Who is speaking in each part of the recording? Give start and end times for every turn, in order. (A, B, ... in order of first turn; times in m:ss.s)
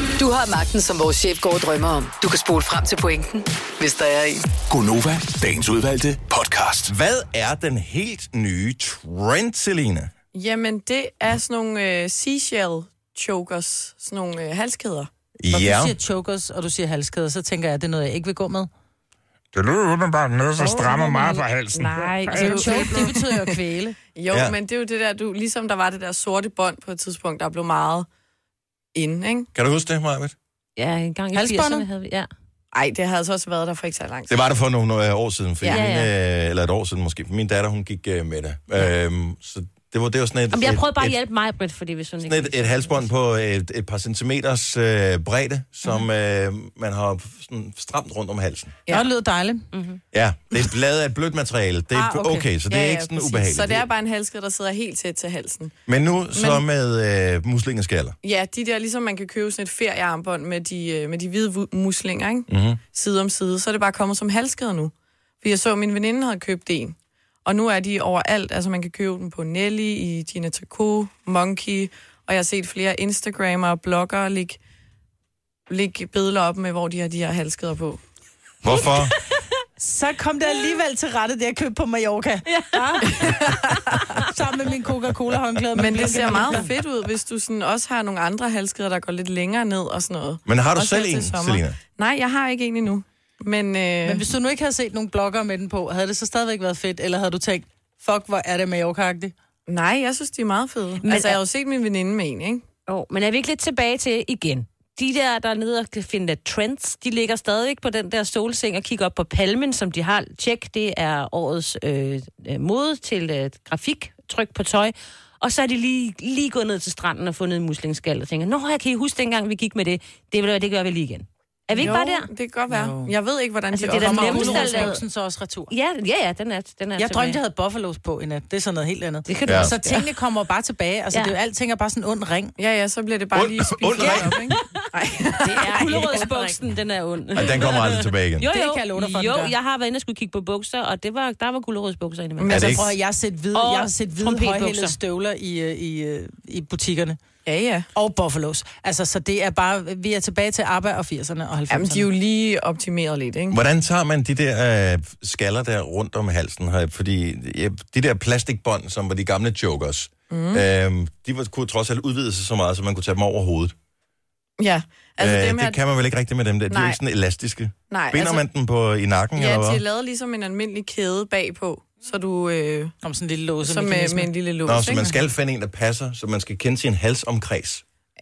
0:00.2-0:04.4 A
0:04.7-0:06.9 B
0:06.9-0:10.1 C
0:10.3-0:15.1 D
0:15.4-0:15.9 C
0:15.5-0:18.7 E
0:19.6-0:21.9 F
0:20.6-0:21.4 E
0:20.6-0:21.1 D
0:21.7-0:23.6 D
0:22.3-0:24.0 E
0:24.2-0:28.1 D
0:24.3-0:24.6 C
0:29.0-0:29.5 D
0:29.6-0:30.4 C
0:30.8-0:32.3 G
0:31.3-0:31.9 E
0:32.7-0:34.4 D
0:34.3-0:41.2 C
0:35.7-0:36.1 G
0:40.5-0:43.1 G
0:42.2-0:48.8 C
0:48.9-0:49.7 E
0:49.7-0:50.0 G
0:50.1-0:53.9 C
0:52.0-0:52.4 E
0:52.7-0:55.8 D
0:55.9-0:58.2 C
0:56.4-0:56.6 D
0:58.2-1:14.6 D
1:02.5-1:02.8 C
1:15.7-1:18.0 D
1:18.6-1:19.2 C
1:19.8-1:26.7 E
1:22.5-1:23.3 G
1:23.1-1:24.1 D
1:25.7-1:34.2 D
1:30.5-1:31.8 C
1:34.0-1:39.3 E
1:39.7-1:42.6 D
1:41.0-1:41.4 G
1:42.9-2:02.3 G
2:01.8-2:05.0 D
2:02.7-2:03.1 E
2:03.8-2:05.0 G
2:03.8-2:05.7 E
2:05.7-2:07.4 G
2:07.0-2:12.6 E
2:09.3-2:10.1 G
2:09.5-2:09.7 C
2:12.6-2:16.3 D
2:13.3-2:14.4 C
2:14.0-2:14.5 G
2:15.4-2:22.7 G
2:15.5-2:16.5 E
2:17.3-2:18.5 C
2:18.5-2:19.5 E
2:22.4-2:22.8 D
2:22.5-2:22.8 C
2:22.5-2:27.2 E
2:23.5-2:25.0 G
2:27.5-2:27.9 D
2:27.9-2:32.1 E
2:31.7-2:33.6 D
2:33.5-2:43.8 C
2:40.3-2:40.6 D
2:44.6-2:45.8 D
2:45.2-2:49.8 C
2:46.7-2:47.0 D
2:47.9-2:48.4 D
2:49.4-2:52.9 D
2:53.0-2:54.3 E
2:53.6-2:55.1 D
2:54.6-2:57.8 C